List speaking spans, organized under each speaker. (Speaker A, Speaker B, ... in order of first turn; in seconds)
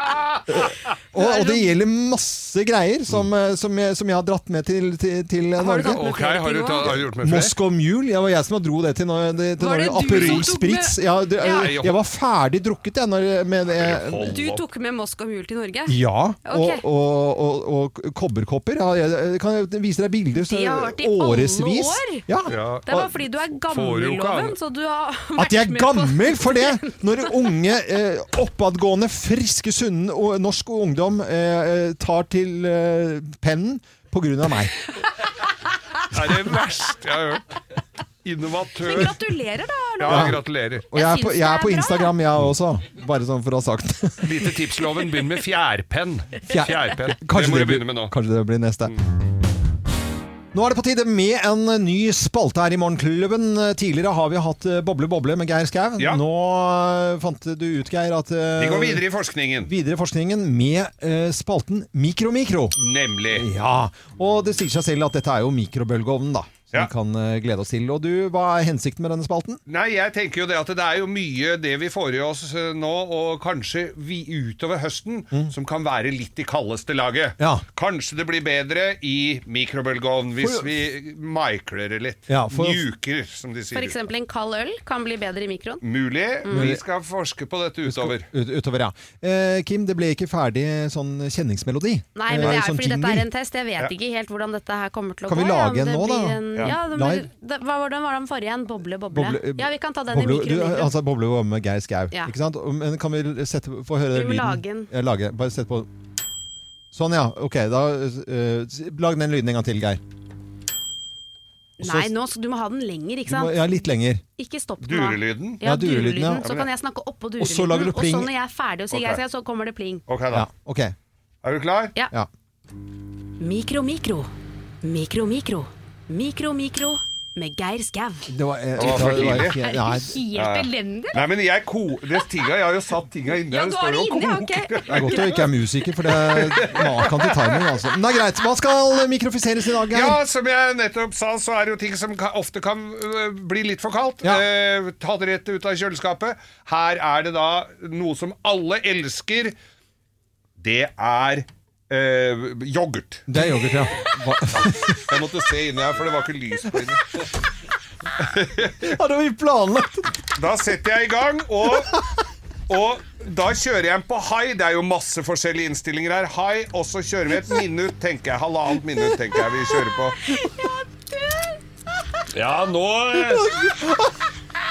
Speaker A: 0.5-6.0, 6.8-14.3, 15.9-23.1, 25.4-34.7, 40.1-40.4, 40.9-44.3, 46.5-48.9, 50.5-59.0, 59.6-62.8, 63.3-69.6, 77.4-77.6, 80.4-80.7, 82.3-82.8, 86.5-86.8, 87.8-93.2, 95.3-97.2, 99.1-105.9, 106.9-110.0, 111.8-112.1, 113.3-114.2, 115.6-116.6, 117.4-118.3, 120.3-120.9, 128.3-130.2, 134.9-140.2, 153.3-155.0, 158.8-160.1, 173.1-174.2
Speaker B: 1.1-1.7, 5.6-7.0, 9.6-11.7, 14.2-16.8, 20.4-22.2, 22.9-27.5, 38.8-40.4, 40.9-42.1, 83.7-85.8, 86.4-86.7, 92.2-100.9, 104.1-104.9, 111.8-113.5, 114.4-120.0, 123.4-124.3, 124.8-128.3, 129.4-131.2, 133.4-135.4, 170.3-171.5
Speaker C: 5.8-7.5, 10.1-10.5, 11.4-12.0, 13.7-14.6, 22.5-22.9, 23.6-24.6, 36.1-37.5, 38.2-39.2, 40.0-40.9, 44.2-48.1, 58.6-59.7, 62.8-63.5, 69.7-84.0, 85.8-88.2, 114.8-115.6, 118.9-119.2, 120.1-120.5, 121.4-121.9, 128.8-129.6, 130.3-137.8, 139.9-149.6, 150.6-153.4, 154.7-157.3, 158.2-159.0, 160.3-161.9, 162.7-170.2, 172.3-173.5